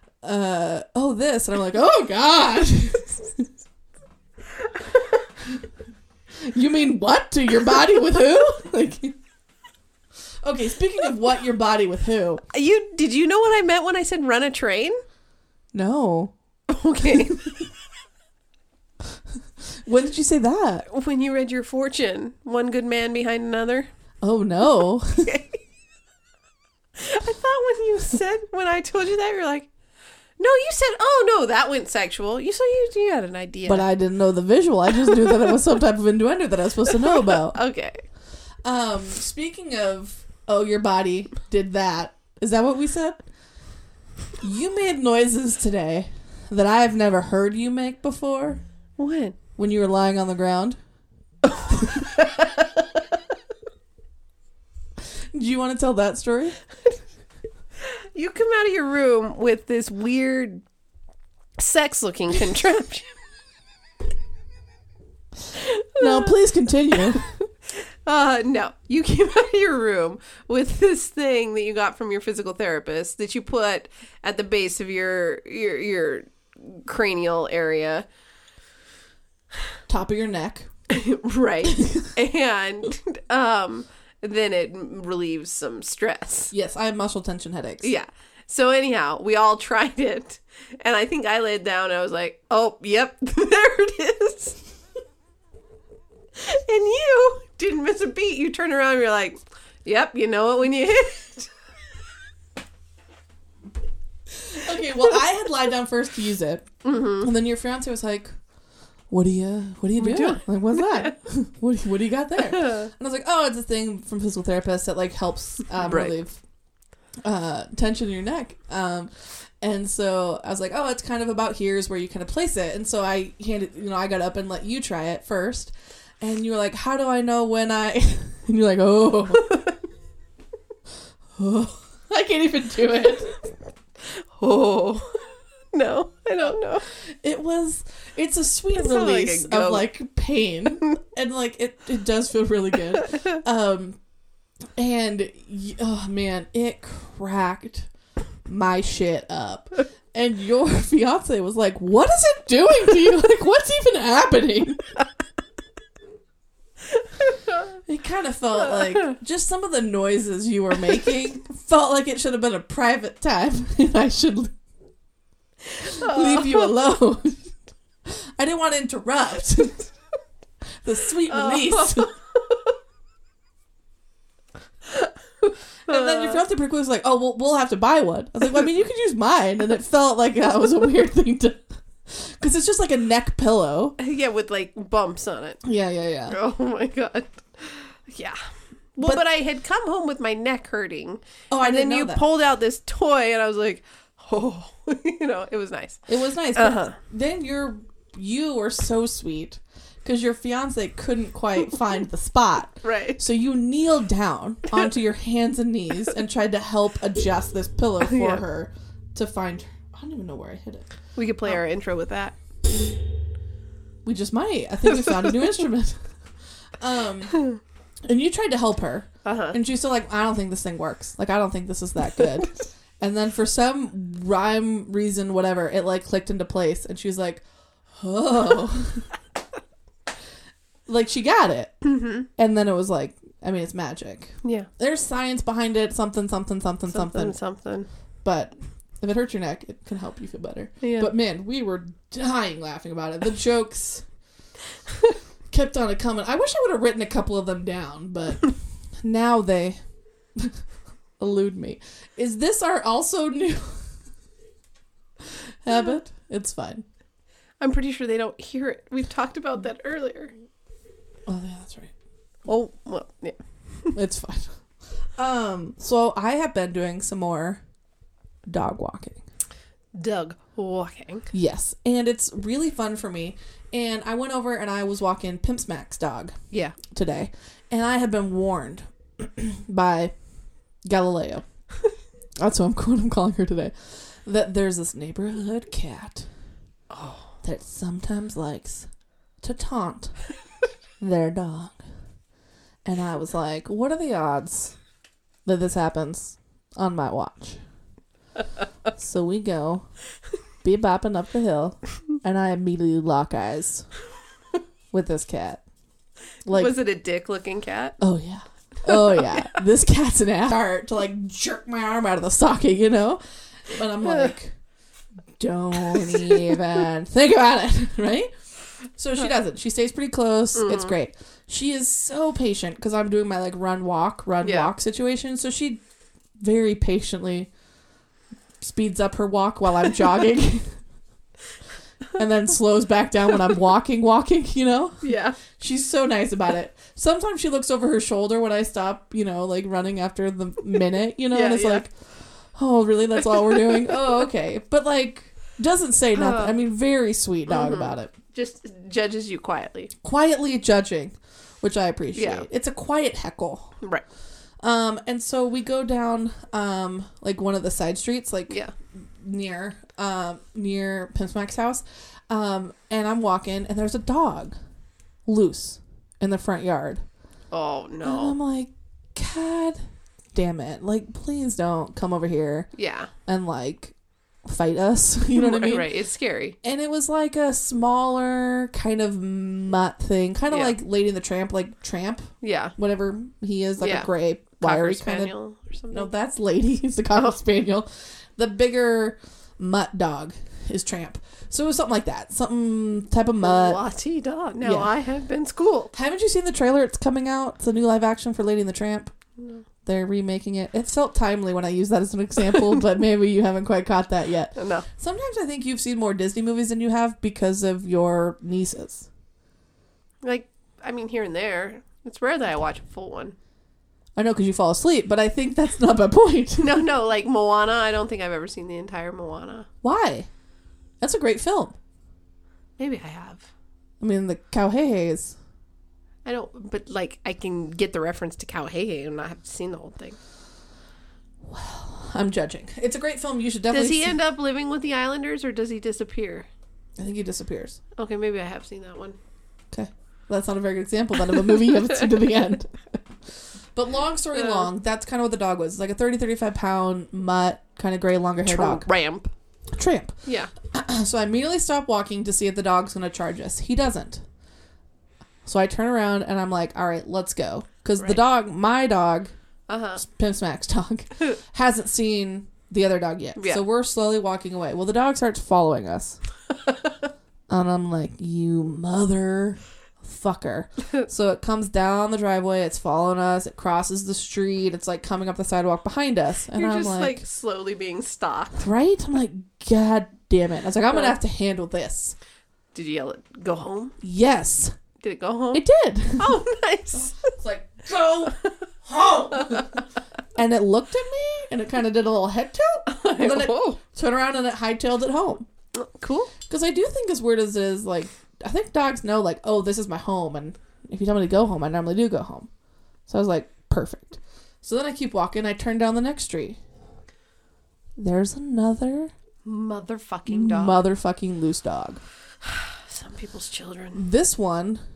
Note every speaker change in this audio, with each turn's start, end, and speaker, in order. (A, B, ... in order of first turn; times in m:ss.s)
0:00.2-0:03.5 A
0:06.4-0:09.2 A
0:10.4-0:12.4 A
0:12.5-0:15.0 B
0:15.7-0:16.3 A
0:16.7-0:17.5 B
0:19.7-0:20.9 A
0:20.9-0:23.9 B
0:24.2-0:25.3 A
0:25.2-0:25.6 B
0:27.0-0:29.7 B
0:30.4-0:33.9 B
0:33.7-0:37.6 A
0:36.9-0:38.0 B
0:38.6-0:43.2 A
0:44.4-0:48.6 A
0:49.0-0:49.4 B
0:49.6-0:50.8 A
0:51.5-0:52.6 B
0:51.7-0:52.1 A
0:55.3-0:56.6 A
0:58.2-1:00.6 B
1:01.6-1:03.1 B
1:05.6-1:06.3 B
1:06.0-1:07.2 A
1:07.2-1:18.1 B
1:19.9-1:20.7 A
1:20.9-1:26.5 B
1:21.7-1:22.1 A
1:26.5-1:27.9 A
1:27.8-1:34.6 B
1:36.4-1:41.5 B
1:44.3-1:48.3 A
1:46.8-1:47.3 B
1:49.1-1:56.4 A
1:50.0-1:51.1 B
1:52.5-1:52.9 B
1:55.8-1:56.2 B
1:57.2-2:09.6 A
2:09.4-2:09.7 B
2:11.4-2:13.3 A
2:14.1-2:16.9 B
2:17.2-2:24.0 A
2:18.7-2:19.8 B
2:24.8-2:27.9 A
2:28.5-2:34.8 A
2:37.2-2:37.6 B
2:37.8-2:44.5 A
2:45.8-2:46.7 B
2:45.8-2:47.5 A
2:48.1-2:49.9 A
2:50.8-2:52.1 A
2:51.3-2:52.7 B
2:55.9-3:04.0 A
2:55.9-2:56.4 B
3:04.0-3:05.6 B
3:05.6-3:06.4 A
3:06.3-3:08.4 B
3:09.0-3:16.0 B
3:11.5-3:12.2 A
3:16.1-3:30.9 A
3:16.6-3:17.0 B
3:22.8-3:23.2 B
3:28.0-3:28.4 B
3:31.2-3:32.4 B
3:34.0-3:36.0 A
3:36.8-3:37.4 A
3:38.1-3:49.1 A
3:39.2-3:39.6 B
3:50.9-3:51.7 A
3:51.8-3:52.3 B
3:52.4-3:57.4 A
3:54.4-3:54.7 B
3:56.9-3:57.9 B
3:58.2-4:04.0 A
4:00.8-4:01.1 B
4:05.5-4:09.8 A
4:11.2-4:13.8 A
4:15.6-4:16.8 A
4:17.6-4:20.3 B
4:21.3-4:21.9 A
4:22.5-4:23.9 B
4:23.9-4:24.6 A
4:25.2-4:27.6 A
4:28.5-4:29.2 A
4:30.0-4:31.3 B
4:31.3-4:40.1 A
4:40.9-4:41.4 A
4:42.4-4:46.3 A
4:46.9-4:47.3 B
4:47.4-4:48.9 A
4:49.4-4:50.2 A
4:51.0-4:51.8 A
4:52.8-4:54.8 A
4:55.4-4:57.6 A
4:59.0-4:59.8 A
5:00.6-5:03.9 A
5:04.9-5:05.6 A
5:06.5-5:06.8 A
5:06.5-5:08.0 B
5:08.0-5:14.6 A
5:08.9-5:09.5 B
5:14.0-5:14.3 B
5:15.4-5:18.3 A
5:15.9-5:16.6 B
5:19.0-5:25.8 A
5:20.6-5:21.0 B
5:24.4-5:24.7 B
5:26.4-5:27.5 A
5:28.6-5:30.7 A
5:32.2-5:41.9 A
5:35.0-5:35.4 B
5:41.3-5:41.8 B
5:42.6-5:48.1 A
5:46.2-5:46.6 B
5:47.5-5:49.9 B
5:50.0-5:53.8 A
5:52.2-5:52.5 B
5:54.6-6:04.5 A
6:05.3-6:07.0 A
6:07.5-6:08.4 B
6:08.0-6:09.8 A
6:10.3-6:12.7 A
6:12.8-6:13.1 B
6:13.3-6:13.9 A
6:14.4-6:15.9 A
6:15.3-6:16.6 B
6:16.6-6:25.3 A
6:20.5-6:20.8 B
6:22.4-6:22.8 B
6:23.8-6:24.1 B
6:24.6-6:26.1 B
6:25.9-6:33.8 A
6:33.4-6:35.9 B
6:34.6-6:34.9 A
6:35.9-6:39.1 A
6:39.4-6:39.6 B
6:39.8-6:49.1 A
6:44.6-6:44.9 B
6:50.2-6:53.4 B
6:54.2-6:56.9 A
6:56.6-6:59.7 B
6:59.8-7:00.3 A
7:01.0-7:01.8 A
7:02.8-7:03.5 B
7:04.0-7:05.4 A
7:06.2-7:10.2 B
7:11.4-7:14.2 A
7:13.7-7:16.5 B
7:17.0-7:17.8 A
7:18.0-7:19.2 B
7:19.7-7:22.8 A
7:23.8-7:28.9 A
7:24.3-7:24.7 B
7:28.5-7:29.3 B
7:29.7-7:34.2 A
7:30.3-7:30.5 B
7:35.4-7:39.3 A
7:39.7-7:40.0 B
7:40.0-7:46.2 A
7:43.4-7:43.6 B
7:47.5-7:57.2 A
7:56.5-7:58.7 B
7:58.6-8:02.2 A
8:02.7-8:04.0 B
8:04.0-8:04.8 A
8:05.0-8:05.6 B
8:05.5-8:06.4 A
8:06.2-8:07.3 B
8:06.9-8:15.5 A
8:09.4-8:09.7 B
8:12.9-8:13.8 B
8:15.8-8:16.3 B
8:16.5-8:22.5 A
8:23.1-8:26.6 A
8:28.0-8:29.1 A
8:29.4-8:30.8 B
8:30.3-8:32.0 A
8:32.4-8:34.0 B
8:33.9-8:34.8 A